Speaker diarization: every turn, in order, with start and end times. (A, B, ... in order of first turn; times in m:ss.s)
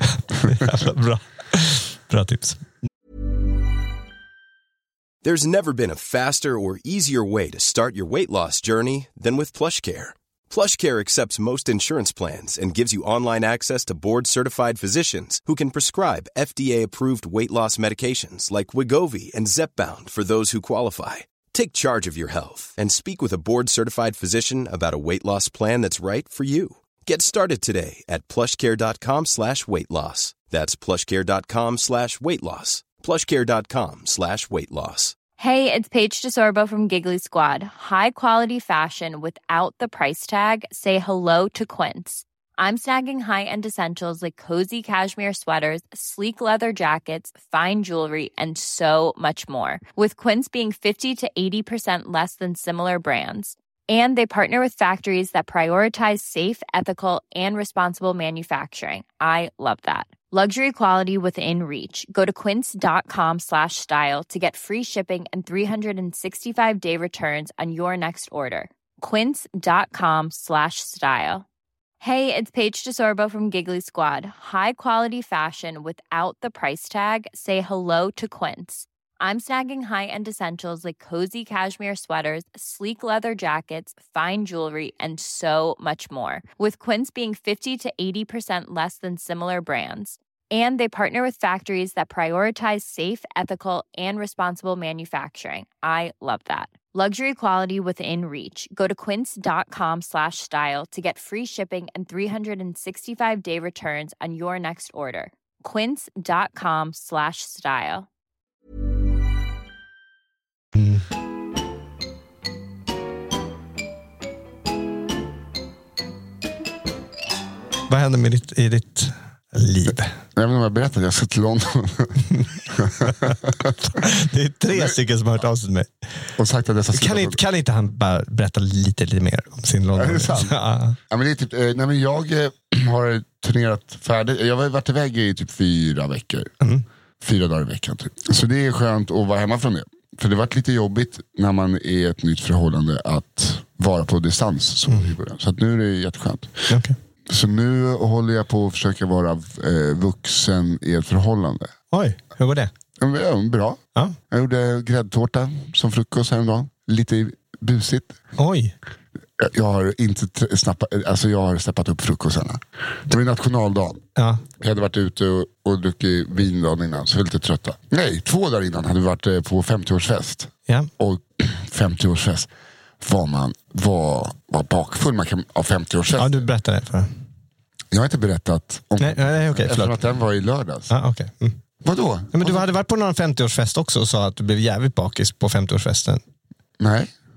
0:00.3-0:02.7 A
0:05.2-0:35.2 B
0:35.4-1:11.4 C
1:12.0-1:48.1 C
1:50.8-1:51.0 A
1:57.9-2:00.1 A
2:00.4-2:03.8 D
2:03.9-2:05.9 A
2:04.7-2:05.0 D
2:06.4-2:07.4 D
2:06.9-2:11.0 A
2:10.0-2:10.6 D
2:11.1-2:16.5 D
2:17.2-2:26.7 D
2:26.7-2:27.0 A
2:27.3-2:31.7 D
2:31.9-2:32.7 A
2:33.0-2:38.2 D
2:38.4-2:38.7 A
2:39.4-2:44.0 D
2:44.2-2:44.4 A
2:44.6-2:52.5 D
2:53.0-2:56.4 D
2:56.2-2:57.1 A
2:57.9-3:00.9 D
2:59.0-2:59.9 A
3:00.9-3:01.6 A
3:01.8-3:02.7 D
3:02.3-3:06.2 A
3:06.8-3:07.1 D